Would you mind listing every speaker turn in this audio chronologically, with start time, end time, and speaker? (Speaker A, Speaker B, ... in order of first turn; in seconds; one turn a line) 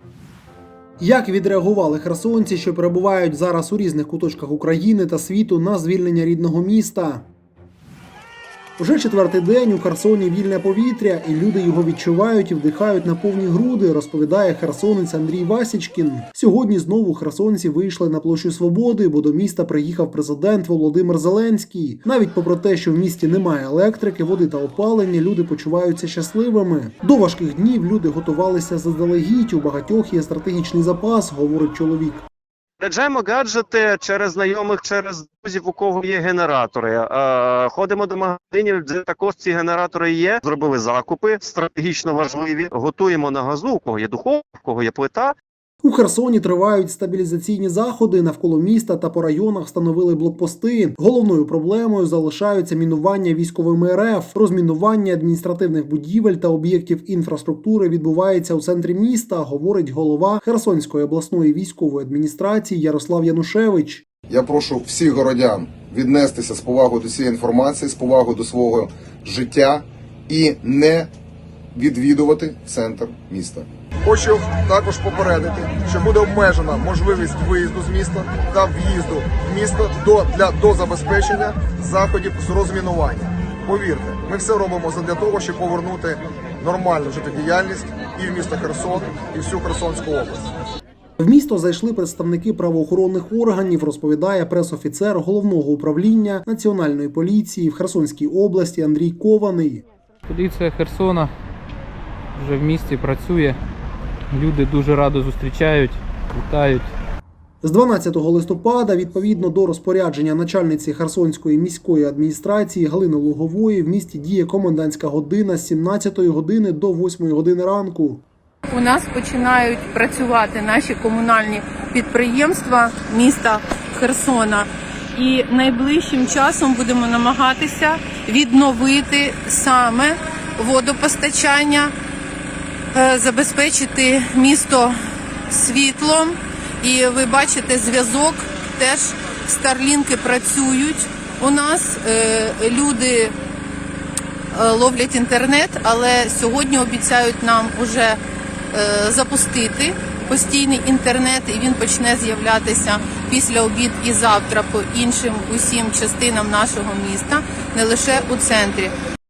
Speaker A: 1.0-7.2
Speaker A: 8.8-32.2
Speaker B: 32.8-45.3
Speaker A: 45.8-64.0
Speaker C: 64.3-71.1
Speaker C: 71.7-90.5
Speaker A: 91.2-99.8
Speaker D: 100.3-101.3
Speaker D: 102.4-103.6
Speaker D: 104.3-106.9
Speaker A: 107.6-118.2
Speaker E: 118.7-131.9
Speaker E: 132.9-134.9
Speaker E: 135.5-143.3
Speaker E: 144.5-148.2
Speaker E: 148.7-158.9